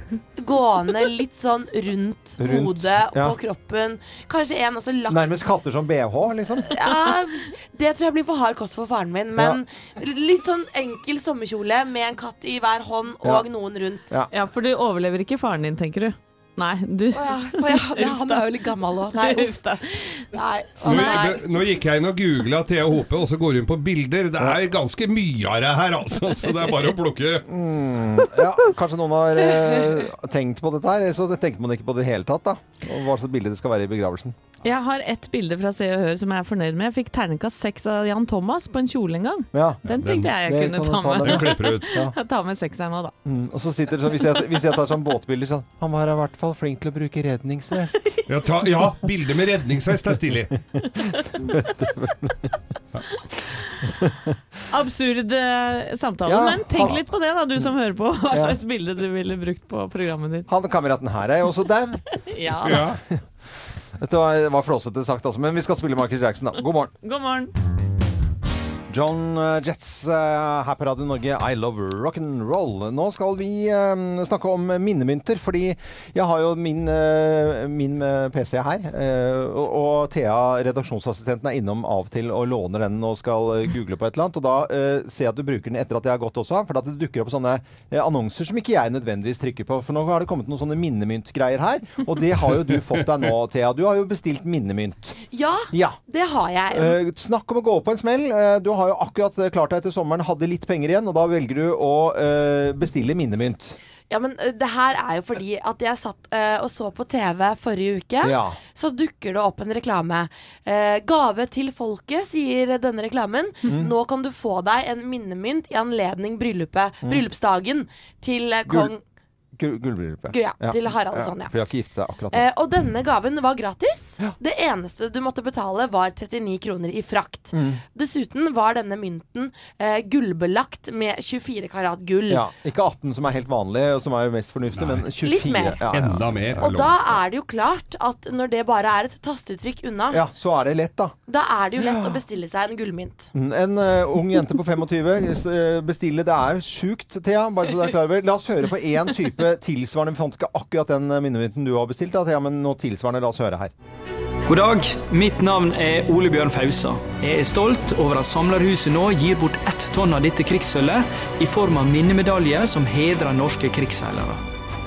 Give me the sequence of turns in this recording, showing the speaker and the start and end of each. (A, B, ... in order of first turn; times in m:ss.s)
0:00.4-0:05.4 A
0:02.4-0:03.4 B
0:05.1-0:06.7 B
0:06.7-0:14.1 A
0:14.3-0:18.5 C
0:17.1-0:19.6 A
0:19.1-0:20.3 C
0:20.3-0:21.4 A
0:20.8-0:27.5 D
0:27.5-0:34.4 B
0:34.6-0:43.1 C
0:39.5-0:39.8 B
0:39.9-0:40.3 D
0:40.4-0:42.1 B
0:41.2-0:41.9 D
0:43.2-0:48.2 B
0:48.3-0:50.6 D
0:51.1-0:51.6 C
0:51.4-0:52.5 B
0:53.8-0:54.4 B
0:54.7-1:00.5 C
0:56.3-0:57.0 B
0:58.3-0:58.6 B
1:00.5-1:02.0 B
1:02.2-1:02.9 C
1:02.6-1:03.0 D
1:02.7-1:06.9 B
1:07.0-1:07.5 C
1:08.9-1:35.2 B
1:35.3-1:37.0 A
1:35.7-1:36.0 B
1:36.7-1:43.8 B
1:44.1-1:59.0 A
1:48.2-1:48.6 B
1:53.7-1:53.9 B
1:58.7-1:58.9 B
1:59.6-2:02.4 B
2:00.3-2:01.5 A
2:02.3-2:12.5 A
2:07.5-2:07.8 B
2:12.3-2:16.4 B
2:14.8-2:15.0 D
2:15.2-2:15.8 A
2:15.9-2:17.0 D
2:16.6-2:20.2 A
2:20.1-2:21.1 B
2:21.3-2:23.3 A
2:21.8-2:22.2 B
2:23.3-2:33.7 B
2:34.5-2:44.4 E